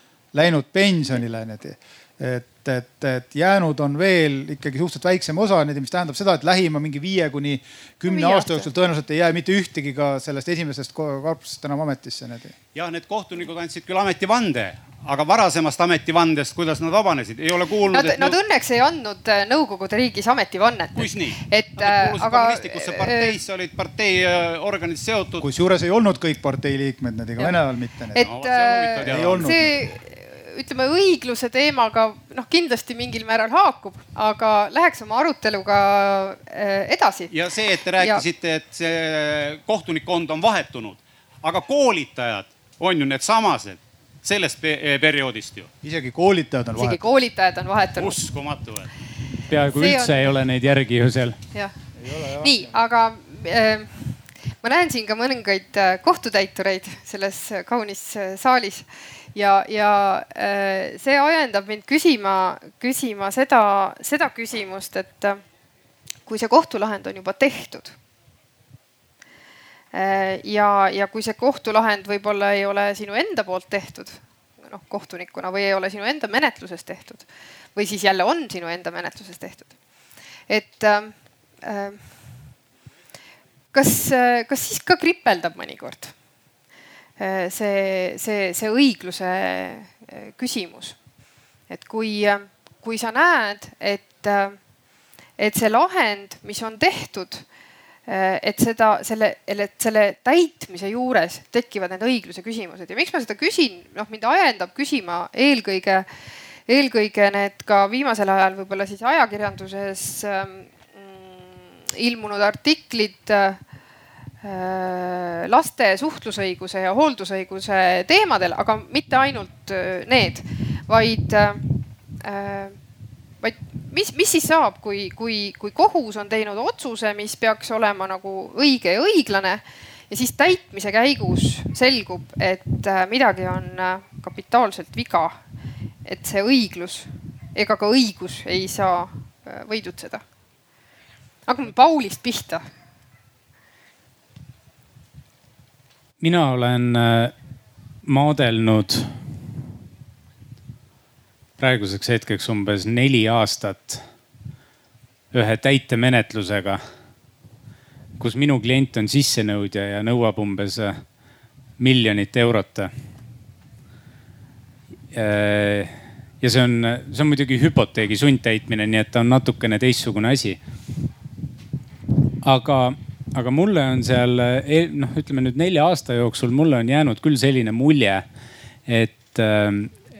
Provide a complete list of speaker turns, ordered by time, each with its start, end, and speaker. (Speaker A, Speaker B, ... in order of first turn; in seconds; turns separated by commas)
Speaker A: 0.3-12.6, Speaker B: 8.1-8.7, Speaker C: 12.7-18.4, Speaker B: 17.9-23.4, Speaker C: 20.9-25.4, Speaker A: 25.4-28.3, Speaker B: 28.1-37.3, Speaker C: 28.2-29.7, Speaker A: 29.0-29.6, Speaker C: 37.3-45.7, Speaker B: 37.9-38.2, Speaker A: 45.8-47.0, Speaker B: 46.8-48.2, Speaker C: 48.0-48.9, Speaker D: 49.5-51.4, Speaker B: 49.6-50.4, Speaker A: 52.0-52.7, Speaker B: 52.2-65.4, Speaker B: 66.2-67.9, Speaker B: 69.9-79.7, Speaker B: 80.5-82.4, Speaker B: 83.7-86.1, Speaker B: 87.2-91.0, Speaker B: 91.7-94.6, Speaker B: 95.4-97.5, Speaker B: 98.1-106.1, Speaker B: 106.7-113.6, Speaker B: 114.4-121.7, Speaker B: 122.2-122.8, Speaker B: 123.4-135.4, Speaker B: 136.0-140.2, Speaker B: 141.5-142.7, Speaker D: 146.2-147.3, Speaker D: 148.1-149.2, Speaker D: 151.6-154.0, Speaker D: 155.3-156.8, Speaker D: 158.2-161.0, Speaker D: 161.8-162.9, Speaker D: 165.1-170.6, Speaker D: 172.4-178.2, Speaker D: 178.9-179.9